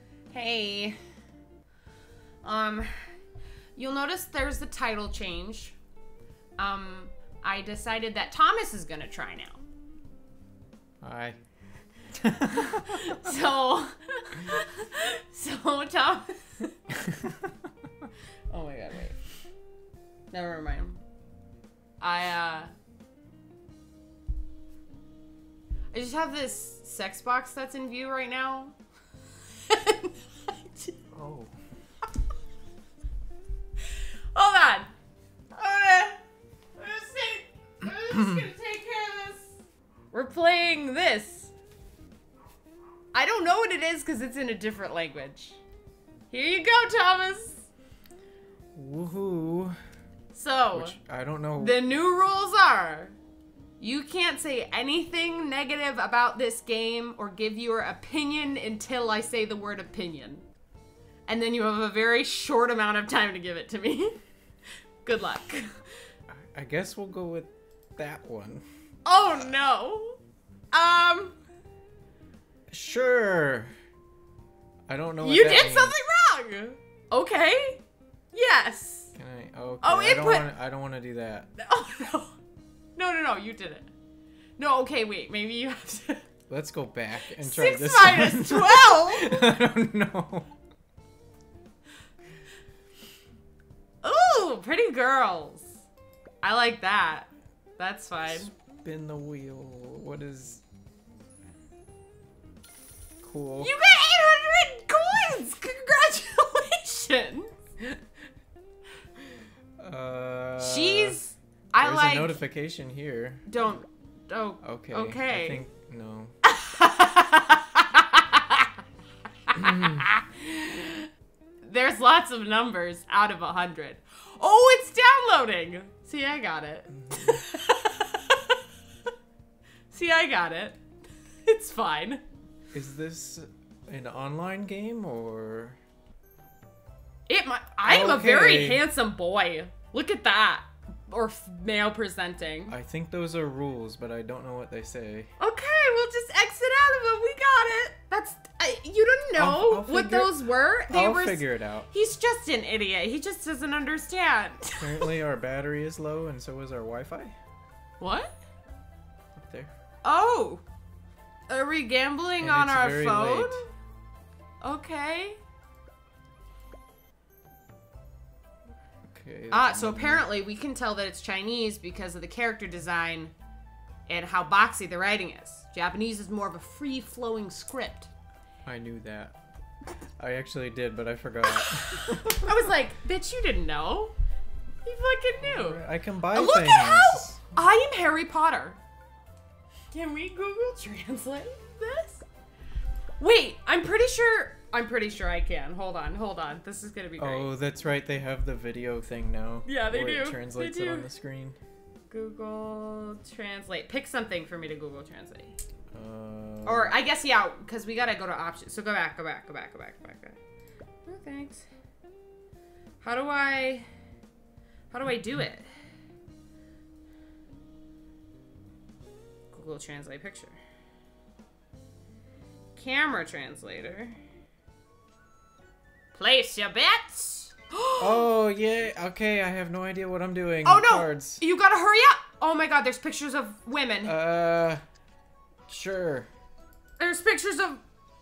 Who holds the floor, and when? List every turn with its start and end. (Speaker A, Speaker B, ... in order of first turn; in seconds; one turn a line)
Speaker A: 0.3-1.0
Speaker A: 2.4-3.1
Speaker A: 3.8-5.8
Speaker A: 6.6-9.6
Speaker B: 11.0-11.4
Speaker B: 12.1-13.2
Speaker A: 12.6-16.7
Speaker B: 17.1-17.4
Speaker A: 18.5-19.2
Speaker A: 20.3-21.0
Speaker A: 22.0-22.7
Speaker A: 25.9-28.8
Speaker A: 29.6-31.0
Speaker B: 31.1-31.6
Speaker A: 33.9-34.9
Speaker A: 35.5-36.2
Speaker A: 36.8-39.6
Speaker A: 40.1-41.5
Speaker A: 43.1-45.6
Speaker A: 46.3-47.7
Speaker B: 48.8-49.8
Speaker A: 50.3-51.0
Speaker B: 50.7-51.8
Speaker A: 51.6-53.2
Speaker A: 53.8-60.5
Speaker A: 61.3-64.2
Speaker A: 65.0-65.8
Speaker B: 66.3-68.7
Speaker A: 69.0-70.2
Speaker A: 70.7-71.4
Speaker B: 72.7-73.7
Speaker B: 74.9-76.0
Speaker A: 75.2-79.1
Speaker B: 79.2-81.5
Speaker A: 79.8-80.5
Speaker A: 81.6-82.4
Speaker A: 83.0-83.9
Speaker A: 84.6-86.3
Speaker B: 86.5-90.5
Speaker A: 87.2-89.6
Speaker A: 94.0-95.8
Speaker A: 96.4-98.5
Speaker B: 98.3-100.6
Speaker B: 103.2-103.7
Speaker A: 103.6-108.0
Speaker B: 109.8-111.2
Speaker A: 110.6-112.4
Speaker B: 111.8-113.5
Speaker A: 113.5-115.6
Speaker B: 114.6-116.3
Speaker A: 116.5-118.7
Speaker A: 119.5-121.1
Speaker B: 119.6-120.1
Speaker A: 121.6-128.6
Speaker B: 126.9-127.4
Speaker A: 129.9-130.8
Speaker A: 131.5-132.2
Speaker B: 132.7-135.8
Speaker A: 137.3-142.8
Speaker B: 137.8-138.8
Speaker B: 142.7-145.3
Speaker A: 145.4-155.1
Speaker B: 149.3-150.3
Speaker B: 150.9-151.9
Speaker B: 154.8-157.4
Speaker A: 158.0-158.4
Speaker B: 159.4-159.7
Speaker A: 160.0-160.6
Speaker A: 161.5-163.7
Speaker B: 162.4-163.7
Speaker A: 164.6-165.4
Speaker B: 169.1-170.3
Speaker A: 169.5-173.3
Speaker A: 174.1-178.1
Speaker B: 178.7-179.4
Speaker B: 180.2-182.6
Speaker A: 181.6-184.1
Speaker A: 184.8-185.8
Speaker B: 185.4-187.4
Speaker A: 186.3-188.8
Speaker A: 189.9-192.3
Speaker A: 193.2-197.5
Speaker B: 197.2-201.6
Speaker A: 199.7-201.1
Speaker A: 202.1-205.6
Speaker B: 205.9-206.9
Speaker A: 206.7-210.4
Speaker A: 211.1-211.7
Speaker A: 213.0-213.9
Speaker A: 214.9-215.7
Speaker A: 219.5-220.6
Speaker A: 222.8-224.2
Speaker A: 226.1-228.3
Speaker B: 228.0-231.4
Speaker A: 230.6-234.2
Speaker B: 234.0-234.8
Speaker B: 235.7-236.3
Speaker A: 237.0-237.8